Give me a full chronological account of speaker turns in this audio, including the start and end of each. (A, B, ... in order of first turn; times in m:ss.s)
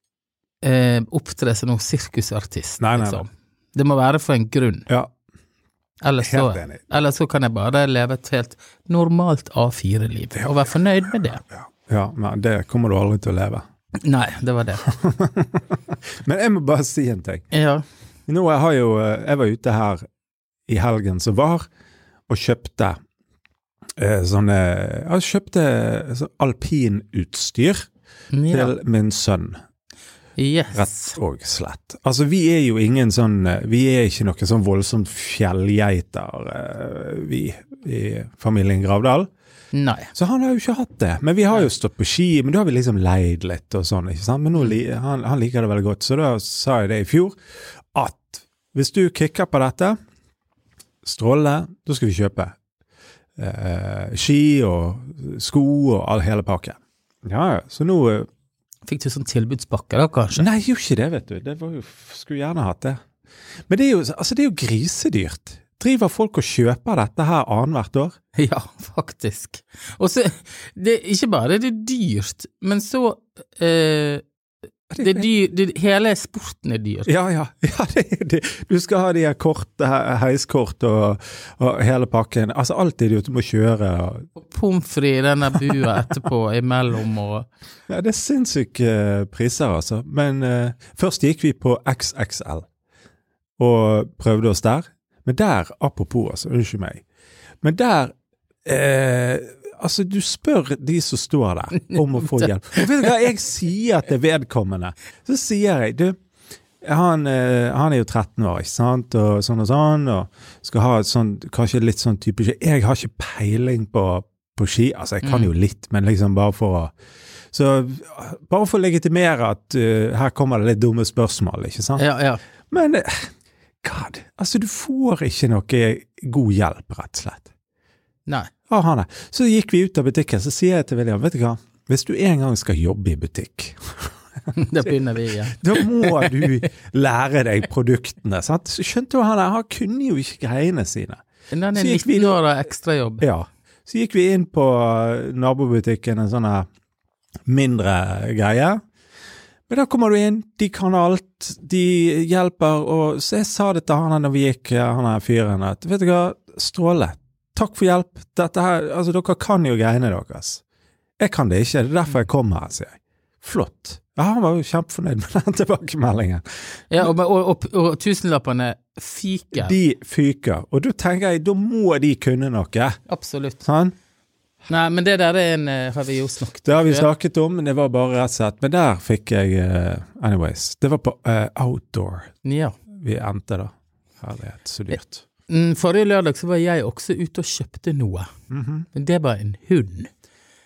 0:00.6-0:04.9 A
0:02.8-0:03.2 B
0:06.0-0:11.4 A
0:06.2-0:07.0 B
0:11.4-0:13.6 B
0:14.0-0:14.9 A
0:14.9-0:17.4 B
0:17.5-0:17.8 A
0:18.3-0:20.0 B
0:20.7-0:21.7 B
0:22.3-0:23.0 B
0:24.0-0:27.9 B
0:28.3-0:28.8 A
0:28.5-0:29.6 B
0:30.4-0:31.2 A
0:30.7-0:39.3 B
0:39.7-0:40.1 A
0:40.1-0:47.4 B
0:47.9-0:50.0 B
0:51.0-0:52.6 B
0:53.4-0:58.3 B
0:58.9-1:00.5 A
1:00.4-1:03.0 B
1:03.7-1:08.2 B
1:08.4-1:14.2 A
1:14.9-1:15.3 B
1:15.0-1:17.1 A
1:17.1-1:24.3 B
1:24.4-1:27.5 A
1:27.9-1:32.6 B
1:33.6-1:37.0 B
1:37.6-1:38.1 B
1:38.6-1:46.2 B
1:41.8-1:43.1 A
1:46.8-1:56.9 B
1:55.2-1:55.5 A
1:57.5-2:02.0 B
2:02.0-2:02.4 A
2:02.7-2:03.3 B
2:03.8-2:07.5 B
2:08.2-2:08.5 A
2:08.7-2:14.1 B
2:14.5-2:16.4 A
2:15.6-2:21.2 B
2:21.5-2:23.2 A
2:21.7-2:22.4 B
2:23.2-2:26.6 B
2:27.5-2:28.8 B
2:29.7-2:40.6 B
2:41.2-2:46.4 B
2:46.9-2:49.8 A
2:49.6-2:53.0 B
2:53.1-2:53.6 A
2:53.6-2:53.9 B
2:54.7-2:57.1 A
2:56.6-3:02.3 B
3:02.4-3:02.8 A
3:03.0-3:05.2 B
3:05.5-3:08.3 A
3:08.5-3:08.9 B
3:08.9-3:10.1 A